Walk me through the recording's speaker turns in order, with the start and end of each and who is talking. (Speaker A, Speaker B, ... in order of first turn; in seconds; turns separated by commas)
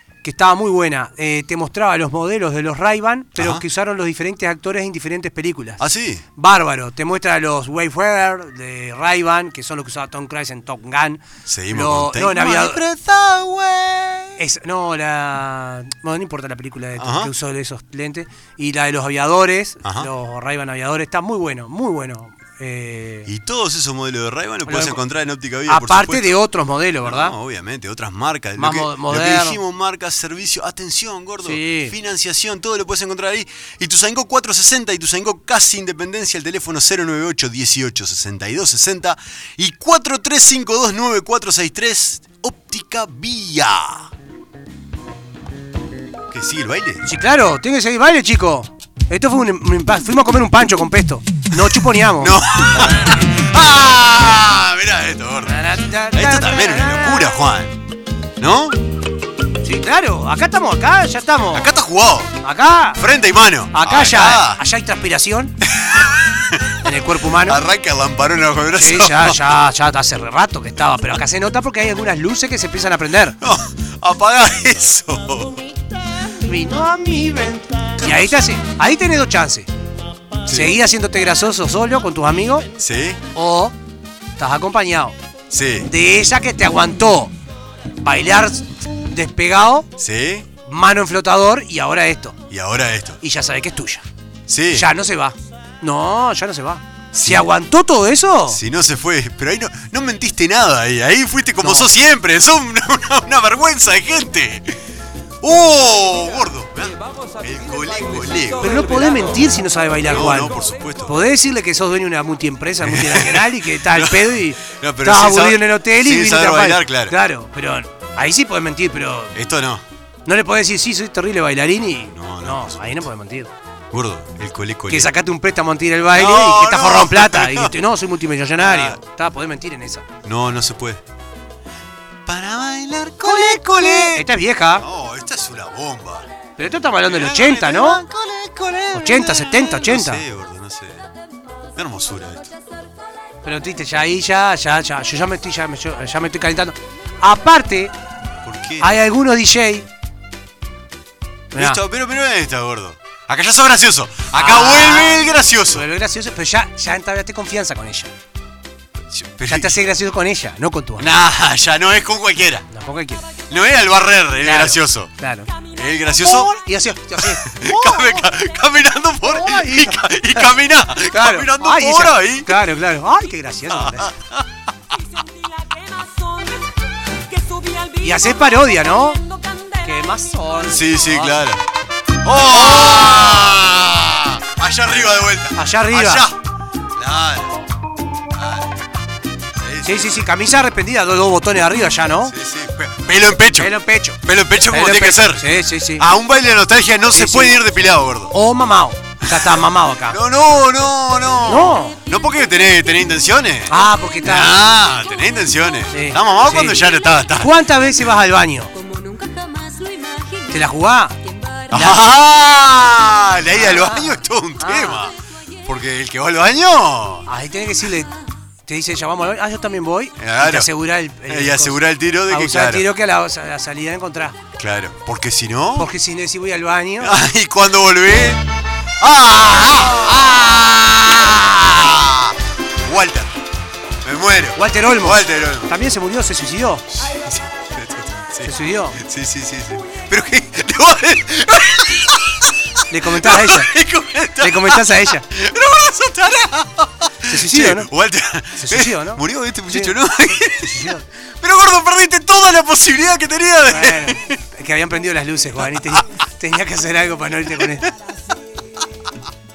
Speaker A: 0.2-5.8, Speaker B: 3.4-3.6, Speaker B: 5.8-6.2, Speaker A: 6.3-12.8, Speaker B: 11.4-14.4, Speaker A: 14.4-23.3, Speaker B: 17.0-17.3, Speaker B: 19.8-20.1, Speaker B: 23.2-26.4, Speaker A: 24.6-25.0, Speaker A: 25.7-27.3, Speaker B: 27.0-44.1, Speaker A: 28.6-29.6, Speaker A: 31.4-31.9, Speaker B: 46.3-47.0, Speaker A: 47.0-52.4, Speaker B: 52.2-57.8, Speaker A: 55.4-57.3, Speaker B: 58.4-58.8, Speaker A: 59.6-61.7, Speaker B: 61.5-62.4, Speaker A: 62.4-63.0, Speaker B: 63.0-64.6, Speaker A: 63.7-65.5, Speaker B: 65.6-66.8, Speaker A: 66.8-67.6, Speaker B: 67.4-69.4, Speaker A: 68.8-73.4, Speaker B: 73.4-75.6, Speaker A: 76.4-79.7, Speaker B: 80.5-80.8, Speaker A: 80.5-82.7, Speaker B: 82.8-83.2, Speaker A: 83.3-83.7, Speaker A: 84.4-85.2, Speaker B: 85.5-85.9, Speaker A: 85.9-87.3, Speaker A: 88.0-89.9, Speaker B: 90.0-90.5, Speaker A: 90.7-92.4, Speaker B: 92.5-93.2, Speaker A: 93.2-94.0, Speaker B: 94.5-94.9, Speaker A: 94.7-98.6, Speaker B: 97.1-97.5, Speaker B: 98.5-104.8, Speaker A: 101.6-101.9, Speaker B: 105.4-109.1, Speaker A: 108.6-119.3, Speaker B: 110.0-111.2, Speaker B: 112.8-117.1, Speaker B: 119.3-119.8, Speaker A: 120.2-123.5, Speaker B: 122.1-123.1, Speaker B: 123.9-125.1, Speaker A: 124.9-130.0, Speaker B: 126.1-127.8, Speaker B: 128.6-129.0, Speaker B: 130.2-131.0, Speaker B: 132.2-136.3, Speaker A: 133.2-134.8, Speaker A: 136.6-138.0, Speaker B: 137.0-141.0, Speaker A: 138.9-140.2, Speaker B: 141.8-142.5, Speaker A: 143.4-147.9, Speaker B: 148.4-149.0, Speaker A: 148.8-149.8, Speaker B: 151.5-155.8, Speaker A: 151.5-151.8, Speaker A: 154.3-158.1, Speaker B: 159.1-159.8, Speaker A: 159.5-161.1, Speaker B: 161.0-162.7, Speaker A: 162.7-163.2, Speaker B: 163.5-165.1, Speaker A: 164.4-165.5, Speaker B: 165.7-166.5, Speaker A: 166.2-168.3, Speaker B: 167.2-172.6, Speaker A: 169.2-170.5, Speaker A: 171.1-174.1, Speaker B: 173.7-174.5, Speaker C: 175.2-176.7, Speaker C: 177.3-178.5, Speaker A: 178.0-179.2, Speaker C: 179.2-180.7, Speaker A: 179.8-181.4, Speaker B: 180.7-181.6, Speaker B: 182.2-186.4, Speaker A: 182.5-183.1, Speaker A: 185.5-186.2, Speaker B: 186.9-187.6, Speaker B: 188.3-188.8, Speaker B: 189.6-190.3, Speaker A: 189.8-192.3, Speaker B: 192.3-198.3, Speaker A: 193.6-194.2, Speaker A: 194.7-196.1, Speaker A: 197.1-197.6, Speaker A: 198.3-200.2, Speaker B: 199.2-207.6, Speaker A: 201.4-202.0, Speaker A: 203.7-204.6, Speaker A: 205.9-208.7, Speaker C: 208.7-211.9, Speaker A: 210.5-211.2, Speaker B: 211.7-217.3, Speaker A: 211.7-212.0, Speaker A: 213.5-215.1, Speaker C: 215.1-215.4, Speaker A: 217.2-218.1, Speaker A: 218.7-224.3, Speaker B: 220.2-220.7, Speaker B: 221.2-222.9, Speaker B: 224.6-225.9, Speaker A: 225.8-227.2, Speaker B: 227.0-228.4, Speaker B: 229.0-233.3, Speaker B: 234.0-235.7, Speaker A: 234.6-236.8, Speaker B: 236.9-254.4, Speaker A: 238.4-239.0, Speaker A: 242.9-243.7, Speaker A: 244.4-245.2, Speaker A: 247.2-247.9, Speaker A: 248.6-250.0, Speaker A: 250.5-251.0, Speaker A: 253.7-257.9, Speaker B: 255.6-256.0